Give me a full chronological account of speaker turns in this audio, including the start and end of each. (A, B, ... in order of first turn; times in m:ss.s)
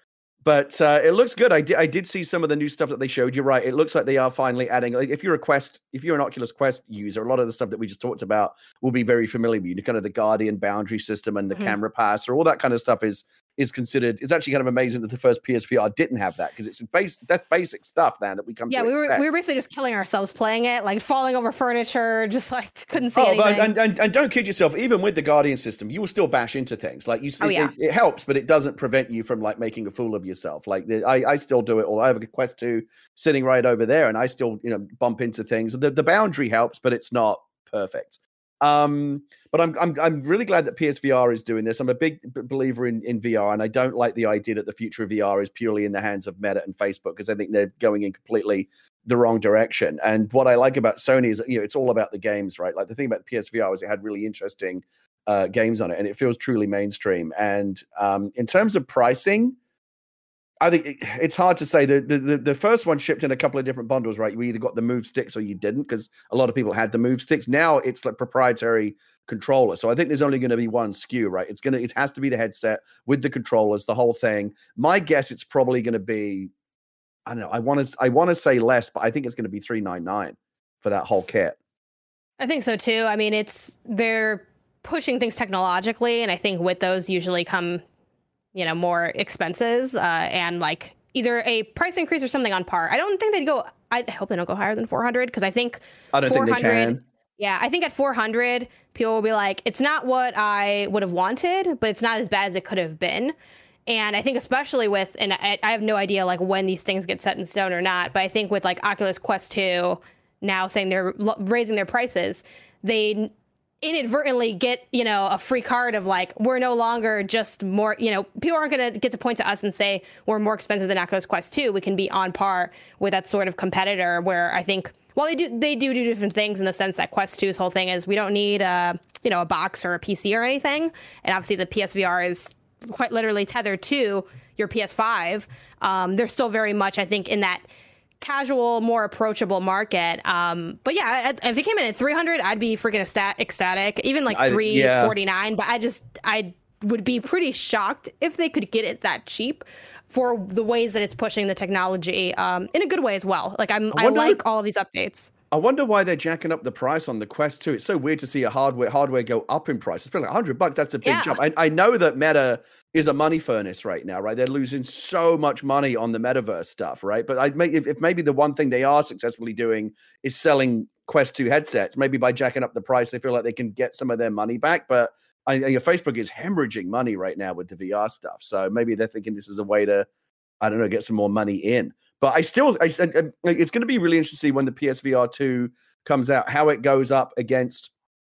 0:00.4-0:19.3 A
0:18.7-0:23.7 B
0:23.1-0:59.6 A
0:27.4-0:27.7 B
1:00.6-1:16.5 A
1:17.2-1:21.6 A
1:22.4-1:27.8 B
1:28.5-1:43.3 B
1:36.1-1:37.0 A
1:43.9-2:17.6 B
2:18.2-2:35.3 B
2:24.3-2:25.1 A
2:33.9-2:34.4 A
2:35.5-3:00.1 A
2:41.0-2:41.4 B
3:00.6-3:07.9 A